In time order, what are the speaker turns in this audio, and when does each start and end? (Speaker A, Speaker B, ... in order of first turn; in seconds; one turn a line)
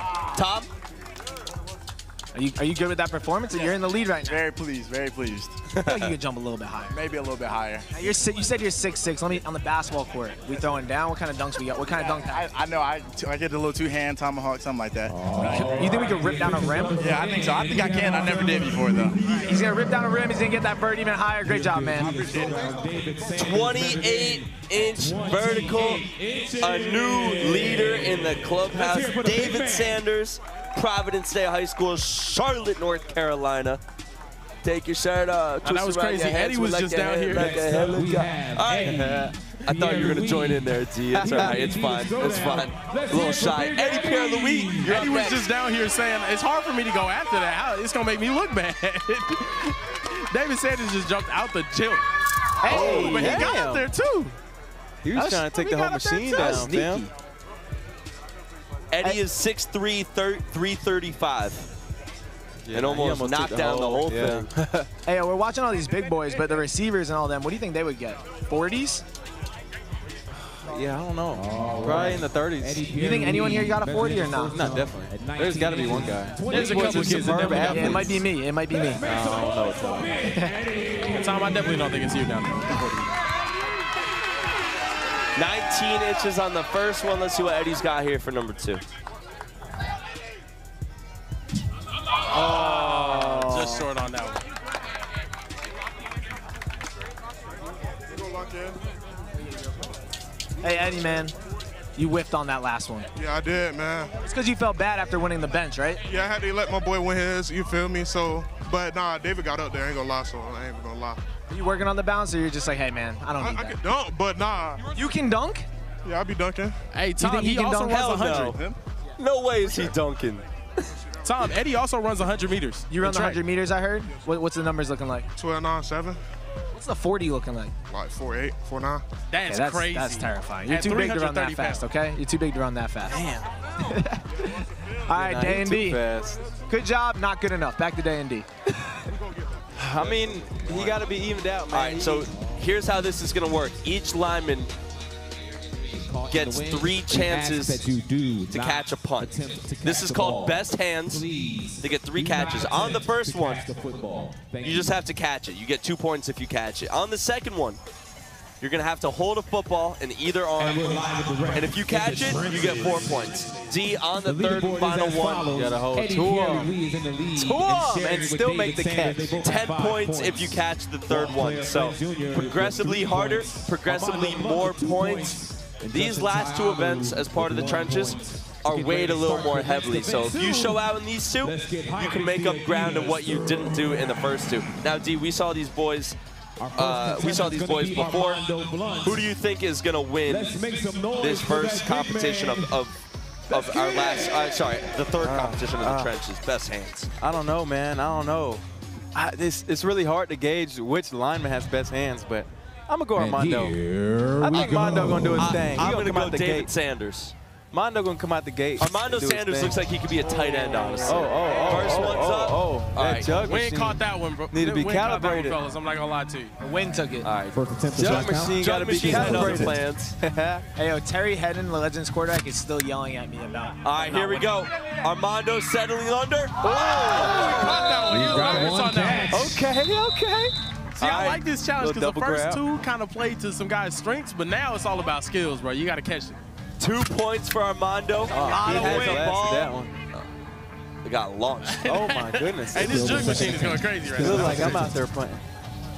Speaker A: 0.3-0.7
Speaker B: 2.3-4.4
Speaker C: 3.5-5.6
Speaker B: 5.8-7.0
Speaker C: 6.9-7.9
Speaker B: 7.9-12.5
Speaker C: 12.0-16.2
Speaker D: 15.1-19.6
Speaker B: 15.5-17.0
Speaker C: 17.0-19.2
Speaker B: 19.4-22.3
Speaker D: 21.4-30.0
Speaker C: 21.9-22.8
Speaker A: 23.4-26.1
Speaker A: 26.6-33.8
Speaker A: 34.6-45.4
Speaker E: 35.6-37.5
Speaker D: 37.3-45.1
Speaker F: 41.2-41.5
Speaker E: 44.9-52.1
Speaker B: 52.6-53.5
Speaker E: 52.6-54.4
Speaker F: 52.6-53.9
Speaker F: 55.0-57.0
Speaker B: 55.1-57.1
Speaker A: 58.9-61.7
Speaker F: 62.7-64.9
Speaker A: 62.7-64.5
Speaker B: 65.1-69.0
Speaker F: 70.7-72.8
Speaker D: 71.3-82.1
Speaker B: 73.0-74.6
Speaker F: 74.5-78.2
Speaker E: 76.5-78.2
Speaker B: 77.7-79.0
Speaker F: 79.0-80.1
Speaker E: 81.1-83.1
Speaker A: 85.4-88.8
Speaker E: 92.3-94.4
Speaker B: 92.4-93.9
Speaker G: 98.1-98.8
Speaker B: 100.6-101.3
Speaker B: 102.0-103.1
Speaker G: 103.2-104.1
Speaker B: 104.2-106.0
Speaker G: 106.1-111.2
Speaker B: 111.5-113.8
Speaker G: 113.4-114.8
Speaker B: 114.9-115.7
Speaker G: 116.0-116.8
Speaker E: 116.9-118.6
Speaker B: 117.2-118.4
Speaker A: 117.9-118.6
Speaker A: 119.2-120.9
Speaker E: 121.2-123.4
Speaker B: 122.9-125.3
Speaker G: 125.4-126.2
Speaker B: 126.8-127.7
Speaker G: 127.9-129.0
Speaker E: 129.3-131.9
Speaker B: 129.5-133.2
Speaker F: 133.1-133.5
Speaker B: 133.9-136.0
Speaker F: 135.1-136.4
Speaker B: 136.7-138.5
Speaker F: 139.8-142.3
Speaker A: 141.7-144.7
Speaker D: 142.3-142.7
Speaker D: 145.9-155.0
Speaker A: 146.3-147.8
Speaker A: 148.5-151.2
Speaker A: 151.8-153.7
Speaker A: 154.6-157.8
Speaker A: 158.6-161.0
Speaker D: 160.6-163.6
Speaker A: 161.5-165.5
Speaker D: 164.2-184.3
Speaker F: 165.5-166.7
Speaker F: 167.3-169.3
Speaker A: 169.4-175.4
Speaker A: 175.9-186.2
Speaker D: 186.6-189.3
Speaker A: 186.8-188.5
Speaker A: 189.0-190.7
Speaker D: 190.3-192.8
Speaker A: 191.2-192.9
Speaker F: 193.5-194.0
Speaker A: 193.5-197.1
Speaker D: 193.6-194.1
Speaker F: 195.2-196.1
Speaker F: 197.2-198.6
Speaker F: 199.2-203.8
Speaker D: 203.2-205.8
Speaker F: 204.4-206.7
Speaker A: 205.4-207.3
Speaker F: 207.7-209.8
Speaker A: 208.8-213.5
Speaker E: 210.4-211.4
Speaker F: 211.0-215.6
Speaker E: 213.4-216.5
Speaker B: 216.6-217.3
Speaker A: 217.2-220.2
Speaker D: 217.5-219.8
Speaker F: 217.9-220.6
Speaker B: 220.8-224.5
Speaker A: 223.8-227.9
Speaker E: 226.7-229.3
Speaker B: 227.2-227.5
Speaker D: 228.1-229.7
Speaker F: 229.3-230.5
Speaker E: 231.0-236.4
Speaker A: 231.0-231.4
Speaker F: 231.8-232.6
Speaker A: 236.8-240.3
Speaker F: 238.3-239.9
Speaker B: 238.3-239.3
Speaker A: 241.0-241.9
Speaker E: 241.7-244.9
Speaker F: 241.8-245.4
Speaker D: 242.8-244.9